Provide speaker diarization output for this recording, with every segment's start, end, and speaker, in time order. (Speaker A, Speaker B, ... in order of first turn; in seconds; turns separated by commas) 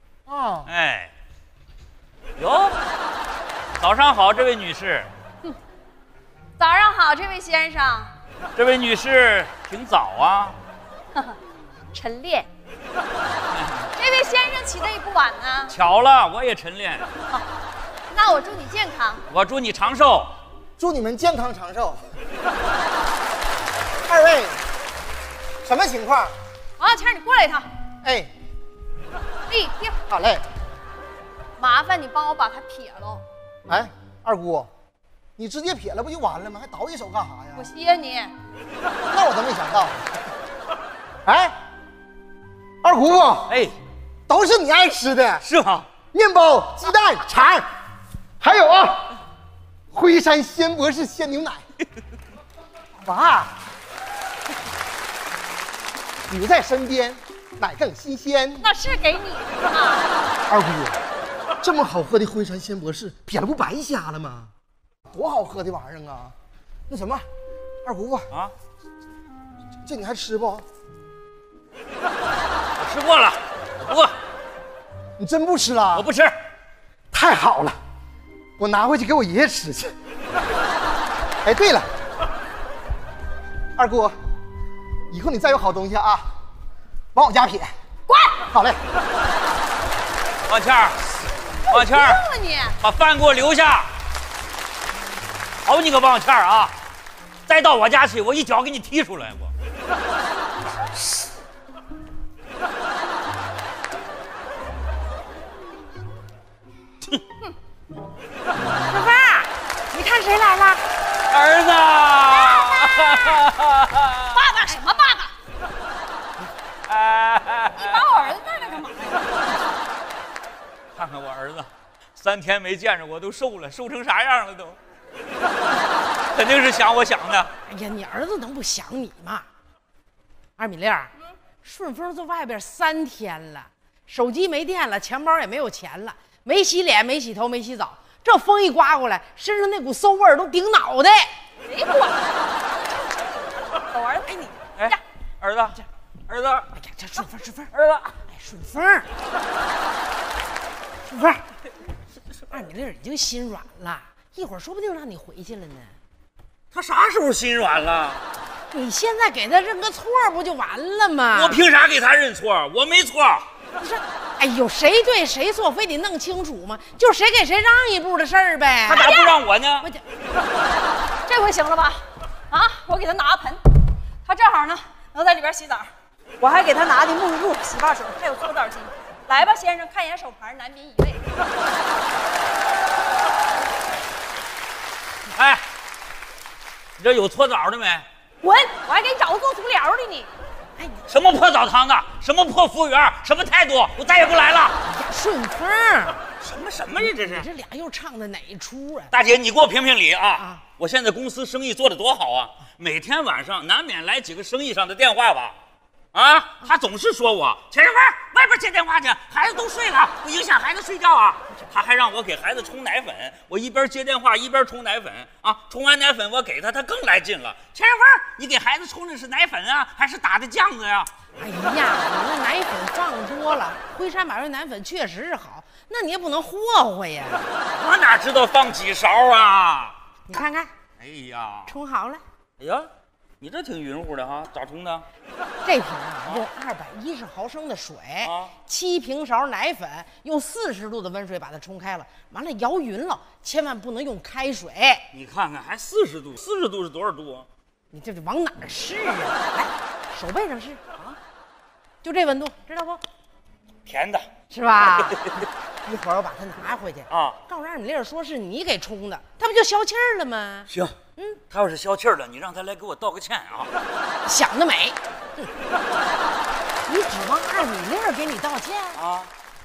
Speaker A: 0.3-0.7, Speaker B: 0.7-1.1, Speaker B: 2.4-2.8, Speaker B: 3.8-5.1, Speaker C: 6.6-8.1, Speaker B: 8.5-10.6, Speaker C: 12.0-12.5, Speaker B: 13.5-13.9, Speaker C: 13.9-15.7, Speaker B: 15.7-17.1, Speaker C: 18.1-19.2, Speaker B: 19.3-20.3, Speaker A: 20.8-22.1, Speaker A: 24.1-24.6, Speaker A: 25.6-26.3, Speaker C: 26.8-27.7, Speaker A: 28.0-28.3, Speaker C: 29.5-30.0, Speaker A: 30.1-30.4, Speaker C: 31.6-33.2, Speaker A: 33.7-34.7, Speaker A: 35.4-37.7, Speaker C: 37.5-38.3, Speaker A: 39.1-40.0, Speaker A: 41.2-41.5, Speaker A: 42.8-43.5, Speaker B: 43.5-43.7, Speaker A: 44.3-45.4, Speaker B: 45.4-45.9, Speaker A: 46.1-47.7, Speaker A: 48.4-49.2, Speaker A: 49.9-51.6, Speaker A: 53.0-53.5, Speaker A: 56.3-58.7, Speaker C: 58.6-60.1, Speaker A: 60.5-61.0, Speaker A: 61.6-64.5, Speaker A: 65.1-66.3, Speaker A: 66.9-67.2, Speaker A: 67.8-68.3, Speaker A: 69.8-70.6, Speaker B: 72.8-74.1, Speaker A: 75.2-76.1, Speaker B: 75.9-76.3, Speaker A: 77.1-77.8, Speaker A: 78.6-79.9, Speaker A: 81.4-81.9, Speaker A: 83.8-84.1, Speaker A: 85.1-86.3, Speaker A: 87.1-87.8, Speaker C: 88.1-88.5, Speaker A: 88.5-88.8, Speaker B: 90.5-91.0, Speaker C: 91.7-92.8, Speaker B: 91.7-92.2, Speaker B: 92.8-93.9, Speaker B: 95.6-96.7, Speaker B: 97.5-99.5, Speaker D: 108.9-110.8, Speaker B: 111.3-114.4, Speaker C: 112.6-113.0, Speaker C: 114.5-115.2, Speaker B: 116.8-118.4, Speaker C: 117.7-119.4, Speaker B: 120.9-124.8, Speaker B: 126.3-127.5, Speaker D: 127.7-129.4, Speaker D: 130.6-141.3, Speaker C: 141.6-145.0, Speaker B: 144.8-146.7, Speaker D: 146.7-149.1, Speaker B: 147.7-148.2, Speaker D: 151.1-151.4, Speaker D: 152.5-156.0, Speaker B: 156.7-158.2, Speaker D: 158.7-161.6, Speaker B: 161.3-163.5, Speaker D: 163.8-169.1, Speaker B: 168.8-169.9, Speaker C: 171.3-173.7, Speaker C: 174.2-181.2, Speaker B: 185.3-185.6, Speaker B: 187.0-188.1, Speaker C: 188.4-190.3, Speaker D: 190.8-191.0, Speaker B: 191.1-194.8, Speaker D: 194.8-196.2, Speaker B: 196.4-197.5, Speaker D: 197.0-199.1, Speaker B: 199.1-205.6, Speaker D: 200.4-200.6, Speaker B: 206.1-221.1, Speaker D: 221.4-227.5, Speaker B: 227.7-230.0, Speaker D: 230.3-230.7, Speaker B: 231.0-231.7, Speaker D: 231.7-232.2, Speaker B: 232.6-232.9, Speaker B: 233.4-235.1, Speaker D: 235.6-245.1, Speaker B: 238.2-238.5, Speaker B: 245.1-247.5, Speaker D: 247.9-251.1, Speaker D: 252.0-253.0, Speaker B: 253.8-254.3, Speaker D: 254.5-261.4, Speaker B: 257.1-257.4, Speaker B: 260.7-260.9, Speaker B: 261.5-263.7, Speaker D: 264.2-265.5, Speaker D: 266.9-269.0, Speaker B: 268.9-269.3